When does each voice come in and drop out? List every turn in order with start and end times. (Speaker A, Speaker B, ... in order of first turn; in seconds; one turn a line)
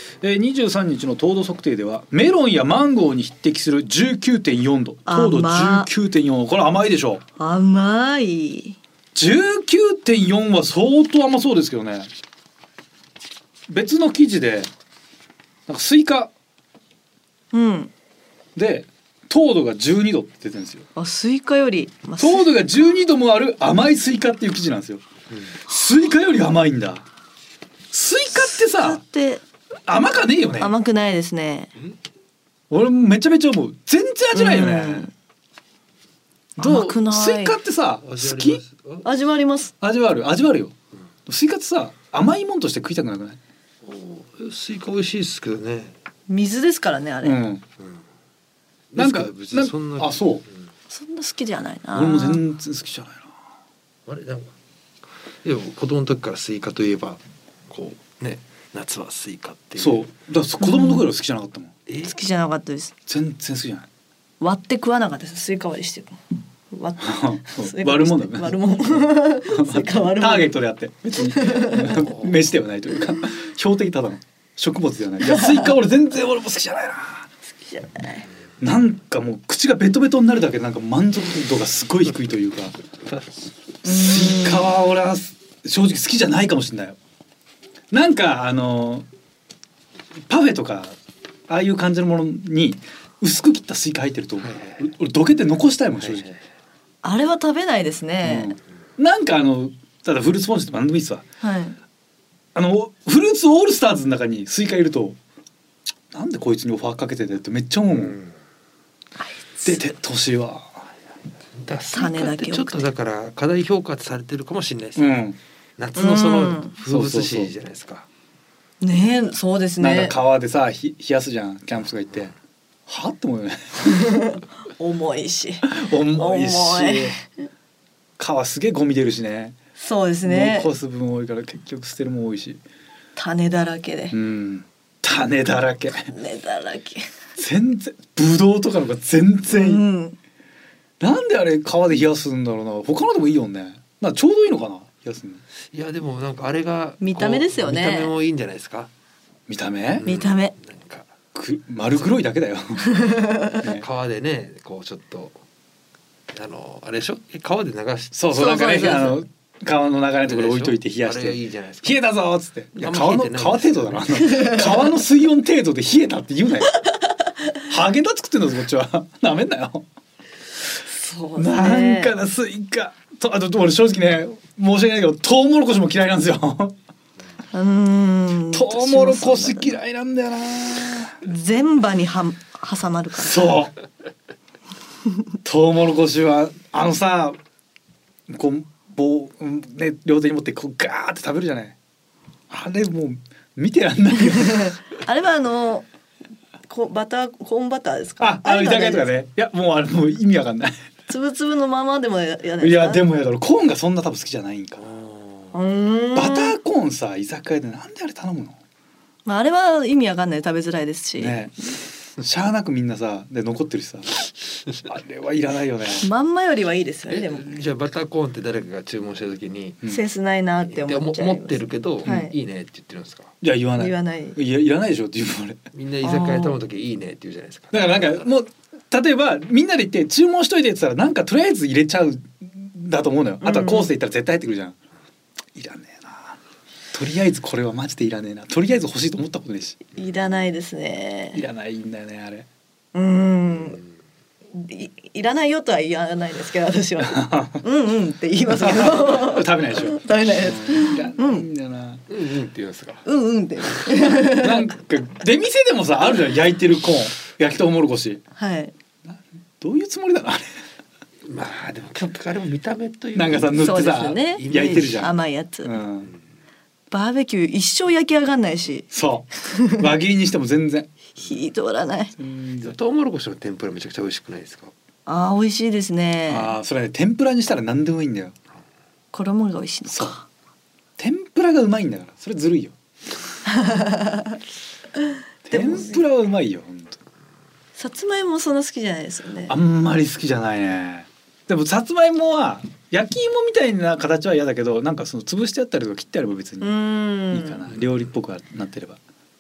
Speaker A: 0.2-7.2
Speaker B: 5.1-5.9
Speaker B: 7.4-8.8
Speaker A: 9.2-12.1
Speaker A: 13.7-14.7
Speaker A: 15.7-16.3
Speaker B: 17.5-17.9
Speaker A: 18.6-20.9
Speaker B: 21.0-22.5
Speaker A: 22.2-25.0
Speaker A: 25.7-27.1
Speaker A: 27.9-29.0
Speaker B: 28.5-29.4
Speaker A: 29.9-30.7
Speaker B: 30.6-31.7
Speaker A: 32.7-35.1
Speaker B: 34.3-35.1
Speaker A: 36.6-38.6
Speaker B: 36.6-37.6
Speaker C: 38.0-39.1
Speaker B: 39.0-39.7
Speaker A: 39.8-40.8
Speaker A: 41.3-43.4
Speaker C: 43.8-45.9
Speaker B: 46.3-47.4
Speaker A: 47.2-47.6
Speaker C: 48.9-50.4
Speaker A: 49.0-50.4
Speaker B: 50.9-52.4
Speaker A: 51.9-53.3
Speaker C: 54.1-54.5
Speaker C: 55.4-60.1
Speaker A: 59.8-61.7
Speaker B: 60.6-61.0
Speaker C: 61.9-62.1
Speaker B: 62.0-62.9
Speaker A: 63.1-63.9
Speaker B: 64.4-70.5
Speaker A: 67.0-77.3
Speaker B: 71.2-72.1
Speaker C: 72.1-72.4
Speaker B: 75.2-75.7
Speaker B: 77.6-78.3
Speaker A: 78.6-82.7
Speaker A: 83.8-87.0
Speaker B: 83.8-84.7
Speaker A: 87.9-89.1
Speaker A: 90.3-91.0
Speaker A: 91.5-96.3
Speaker C: 94.4-94.8
Speaker C: 96.0-96.4
Speaker B: 97.0-98.6
Speaker A: 98.2-101.2
Speaker B: 101.4-101.8
Speaker A: 102.5-105.2
Speaker A: 106.1-108.2
Speaker C: 107.9-108.3
Speaker B: 109.2-109.7
Speaker A: 109.7-110.9
Speaker C: 111.6-115.2
Speaker B: 111.9-112.8
Speaker A: 115.0-115.4
Speaker C: 115.8-118.1
Speaker B: 116.0-116.7
Speaker A: 116.9-117.5
Speaker B: 118.8-120.2
Speaker A: 119.8-122.3
Speaker A: 122.9-124.0
Speaker B: 123.9-127.3
Speaker A: 125.7-127.1
Speaker A: 128.2-129.6
Speaker B: 129.8-130.7
Speaker A: 130.2-132.6
Speaker B: 133.2-134.2
Speaker A: 134.1-136.1
Speaker B: 136.1-137.1
Speaker A: 137.4-139.8
Speaker B: 139.5-140.2
Speaker A: 141.0-145.4
Speaker C: 145.7-148.9
Speaker B: 147.0-148.1
Speaker A: 149.5-150.1
Speaker C: 150.0-151.1
Speaker B: 150.1-150.5
Speaker A: 151.3-153.8
Speaker B: 152.8-153.6
Speaker C: 153.6-155.4
Speaker C: 156.3-158.2
Speaker A: 158.1-166.8
Speaker B: 158.3-159.2
Speaker C: 160.3-162.0
Speaker C: 162.8-164.2
Speaker B: 164.2-164.9
Speaker A: 167.7-169.8
Speaker B: 170.8-172.2
Speaker A: 171.4-176.8
Speaker B: 177.5-179.8
Speaker A: 178.5-181.2
Speaker B: 181.2-183.6
Speaker A: 183.2-183.7
Speaker A: 185.4-187.4
Speaker A: 188.3-191.8
Speaker A: 192.5-194.8
Speaker B: 194.3-195.9
Speaker B: 196.7-199.1
Speaker A: 198.2-200.8
Speaker B: 201.1-203.1
Speaker A: 202.6-204.8
Speaker C: 204.8-205.5
Speaker B: 205.5-206.6
Speaker A: 206.1-208.6
Speaker B: 209.3-211.5
Speaker A: 211.2-211.5
Speaker A: 212.2-214.3
Speaker A: 214.8-216.1
Speaker B: 216.0-217.4
Speaker C: 217.1-219.8
Speaker B: 219.9-222.3
Speaker C: 220.7-223.3
Speaker A: 223.4-225.6
Speaker B: 223.8-224.4
Speaker C: 225.7-228.3
Speaker B: 226.0-226.6
Speaker A: 227.7-234.8
Speaker B: 233.4-233.9
Speaker A: 235.6-236.4
Speaker A: 236.9-239.8
Speaker B: 239.9-241.4
Speaker A: 241.3-242.5
Speaker B: 242.9-243.8
Speaker B: 244.5-251.5
Speaker A: 247.0-247.6
Speaker A: 248.5-252.0
Speaker C: 252.1-253.1
Speaker B: 253.1-254.7
Speaker A: 254.0-258.2
Speaker B: 258.4-258.7
Speaker A: 259.1-260.4
Speaker C: 261.2-265.1
Speaker A: 263.1-265.1
Speaker B: 263.6-265.8
Speaker A: 265.6-266.1
Speaker B: 266.9-268.9
Speaker A: 268.9-270.9
Speaker B: 269.4-269.9
Speaker B: 271.2-272.1
Speaker A: 272.2-272.7
Speaker C: 272.6-274.7
Speaker B: 275.1-276.6
Speaker A: 276.3-278.3
Speaker B: 279.1-280.3
Speaker A: 279.9-280.1
Speaker A: 281.0-282.8
Speaker B: 283.5-284.4
Speaker B: 285.0-286.0
Speaker A: 285.4-287.0
Speaker B: 287.8-289.6
Speaker A: 289.5-296.8
Speaker B: 296.6-297.6
Speaker A: 297.3-299.0
Speaker C: 297.7-297.9